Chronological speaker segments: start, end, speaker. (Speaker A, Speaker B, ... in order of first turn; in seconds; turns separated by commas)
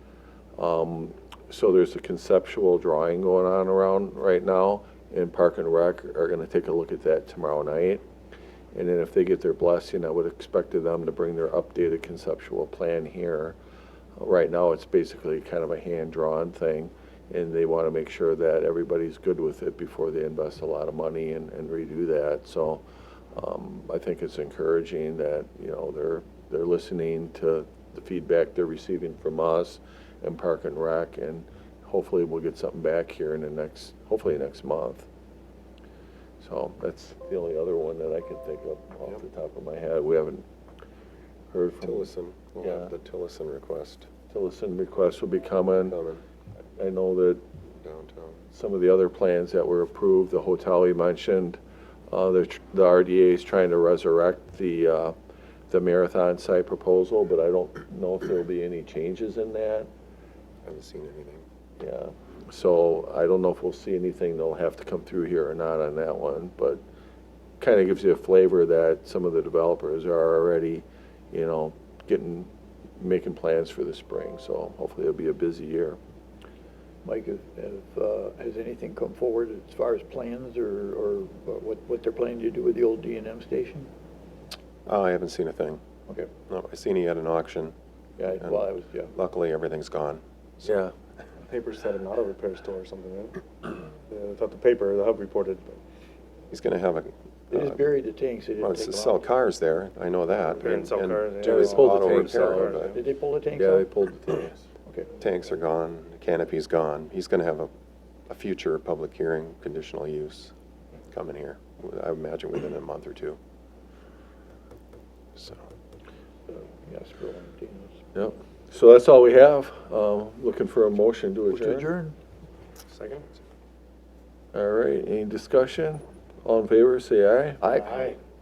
Speaker A: 0.6-8.0, Speaker A: 8.7-13.6, Speaker A: 14.2-35.1, Speaker A: 36.4-40.5, Speaker A: 41.5-42.1, Speaker B: 41.8-44.1, Speaker A: 42.6-42.9, Speaker A: 44.3-46.0, Speaker B: 45.8-46.2, Speaker A: 46.8-47.4, Speaker B: 47.8-48.5, Speaker A: 48.5-55.1, Speaker A: 55.7-59.9, Speaker B: 60.6-61.5, Speaker A: 61.8-66.8, Speaker A: 67.6-76.0, Speaker C: 77.0-83.9, Speaker B: 84.9-85.8, Speaker B: 86.5-87.7, Speaker C: 88.2-89.1, Speaker B: 88.4-90.7, Speaker A: 90.6-90.9, Speaker D: 91.4-95.8, Speaker B: 96.5-97.8, Speaker C: 97.5-99.3, Speaker B: 98.6-103.0, Speaker D: 100.4-103.0, Speaker A: 101.4-102.9, Speaker C: 102.9-104.1, Speaker A: 103.5-104.7, Speaker C: 104.9-105.1, Speaker B: 105.2-107.7, Speaker B: 108.3-110.5, Speaker B: 111.1-113.4, Speaker B: 115.4-115.7, Speaker C: 116.8-118.0, Speaker A: 118.1-121.9, Speaker C: 121.5-122.2, Speaker D: 122.9-123.3, Speaker A: 124.5-127.8, Speaker C: 127.6-128.1, Speaker D: 127.7-128.2